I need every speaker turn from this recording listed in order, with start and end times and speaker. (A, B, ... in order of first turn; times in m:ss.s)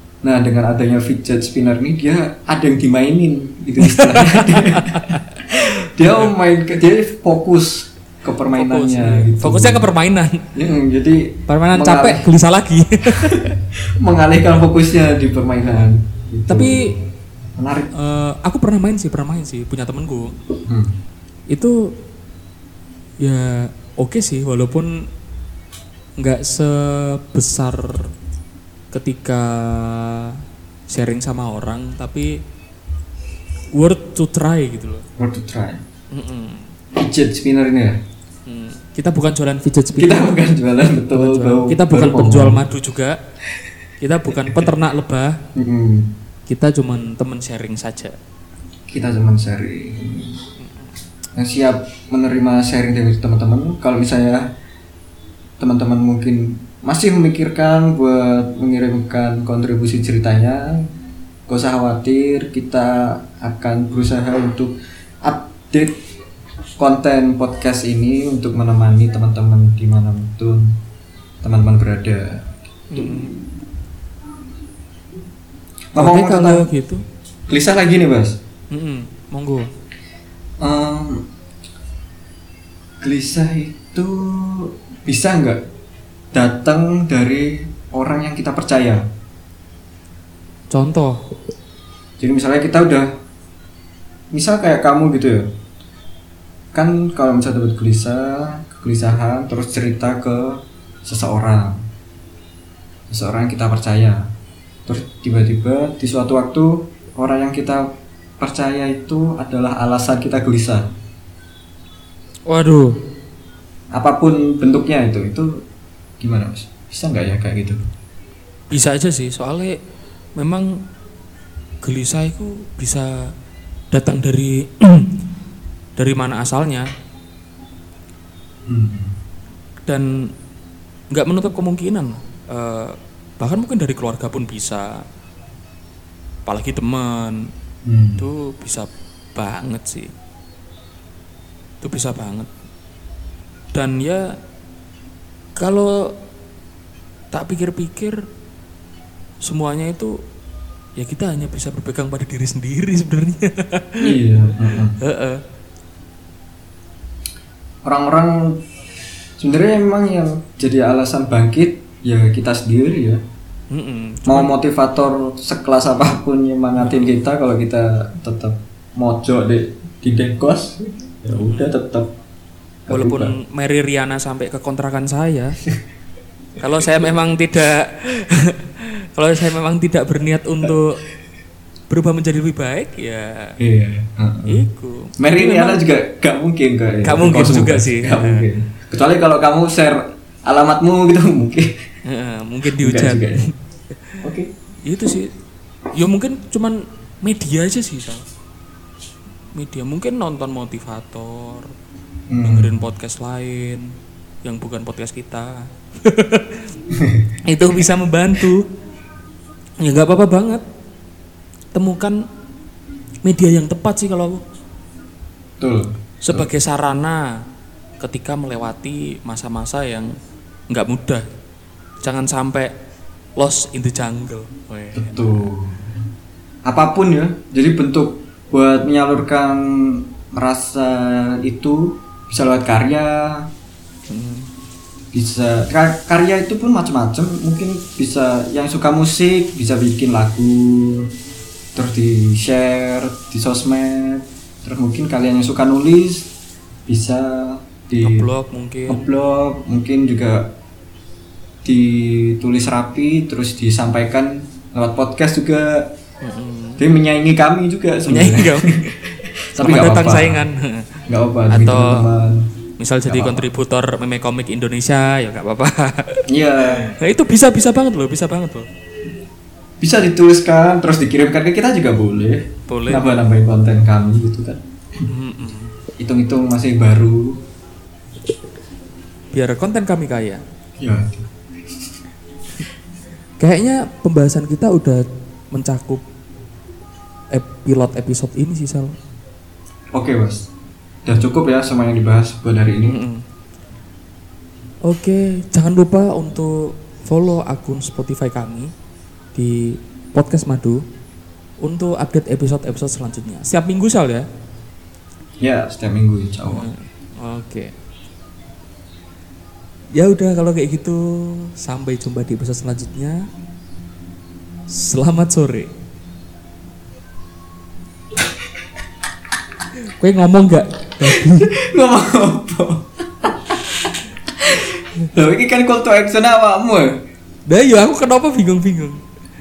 0:00.2-0:09.9 A
0:03.8-0:05.4 B
0:06.0-0:06.3 B
0:08.5-0:10.5 B
0:10.5-0:12.3 A
0:11.5-0:13.5 B
0:13.1-0:13.4 A
0:14.0-0:16.9 A
0:16.5-0:16.9 B
0:17.6-0:17.9 A
0:17.9-0:20.3 B
0:20.7-0:20.9 A
0:21.5-0:21.7 B
0:23.2-0:24.9 B
0:26.2-0:28.1 B
0:28.9-0:30.3 B
0:30.9-0:32.3 B
0:33.8-0:35.0 B
0:35.2-0:35.8 A
0:36.1-0:36.7 B
0:37.0-0:38.0 A
0:38.4-0:40.3 B
0:40.0-0:42.6 A
0:41.1-0:43.2 B
0:44.0-0:45.3 B
0:44.3-0:44.7 A
0:45.6-0:46.1 A
0:46.5-0:48.2 B
0:48.9-0:50.4 A
0:50.6-0:50.9 B
0:51.4-0:54.5 A
0:55.6-1:00.7 A
1:01.5-1:05.9 A
1:06.8-1:10.7 A
1:11.4-1:13.4 A
1:12.9-1:13.3 B
1:15.9-1:16.7 A
1:16.0-1:17.0 B
1:17.5-1:18.4 A
1:18.7-1:19.7 B
1:20.6-1:21.2 A
1:23.0-1:25.6 A
1:26.3-1:29.0 A
1:30.7-1:31.2 B
1:32.2-1:33.1 A
1:34.3-1:35.5 A
1:36.7-1:41.8 A
1:43.1-1:44.2 A
1:44.9-1:47.8 A
1:48.4-1:50.8 A
1:52.5-1:52.9 B
1:53.9-1:55.5 A
1:56.2-1:57.8 A
1:58.7-1:59.8 B
2:00.4-2:00.7 B
2:01.8-2:03.3 B
2:03.9-2:05.1 B
2:06.0-2:06.9 B
2:08.7-2:09.1 A
2:11.1-2:14.9 B
2:16.4-2:17.5 B
2:17.8-2:18.2 A
2:18.2-2:20.1 B
2:21.8-2:22.5 B
2:23.7-2:24.3 B
2:25.6-2:26.1 B
2:27.3-2:28.2 B
2:29.4-2:30.1 B
2:31.0-2:34.1 B
2:34.0-2:34.9 A
2:35.0-2:35.4 B
2:37.8-2:38.6 A
2:39.4-2:43.2 A
2:43.7-2:44.6 B
2:44.3-2:52.1 A
2:46.8-2:47.1 B
2:51.4-2:51.7 B
2:52.9-2:53.3 A
2:52.9-2:55.5 B
2:56.6-3:01.0 B
3:01.9-3:03.5 B
3:03.6-3:04.6 A
3:04.5-3:05.8 B
3:05.2-3:11.7 A
3:07.0-3:08.4 B
3:12.0-3:13.5 B
3:12.8-3:13.4 A
3:14.2-3:14.5 A
3:14.8-3:15.3 B
3:15.9-3:18.2 B
3:19.5-3:21.7 B
3:22.3-3:22.8 A
3:22.4-3:23.8 B
3:24.4-3:26.7 B
3:26.9-3:27.3 A
3:27.4-3:28.7 B
3:29.8-3:30.6 B
3:31.7-3:32.2 B
3:33.2-3:34.4 B
3:35.6-3:36.5 A
3:36.2-3:37.2 B
3:38.0-3:40.1 B
3:40.7-3:41.2 B
3:42.0-3:42.7 B
3:43.4-3:45.5 B
3:44.9-3:45.9 A
3:46.6-3:53.5 A
3:54.1-3:54.5 B
3:55.1-4:01.1 A
4:01.7-4:06.3 A
4:06.9-4:08.3 A
4:08.0-4:09.0 B
4:08.9-4:10.5 A
4:11.6-4:15.9 A
4:16.2-4:16.8 B
4:16.8-4:18.8 A
4:18.1-4:20.8 B
4:19.5-4:20.4 A
4:21.1-4:22.5 A
4:21.5-4:22.0 B
4:22.8-4:26.2 B
4:23.0-4:23.5 A
4:26.3-4:26.8 A
4:26.8-4:28.6 B
4:29.8-4:35.0 A
4:32.7-4:33.1 B
4:35.1-4:35.7 B
4:36.0-4:37.4 A
4:39.3-4:40.4 B
4:40.8-4:41.3 A
4:43.4-4:46.0 B
4:47.3-4:48.9 B
4:49.9-4:50.5 A
4:51.0-4:53.0 A
4:52.8-4:53.2 B
4:54.9-4:58.7 B
4:59.3-5:00.8 B
5:01.6-5:04.2 B
5:05.4-5:06.7 A
5:06.5-5:07.7 B
5:09.9-5:13.2 B
5:14.7-5:15.7 B
5:20.0-5:21.5 B
5:21.1-5:23.6 A
5:24.4-5:27.0 A
5:27.5-5:29.0 B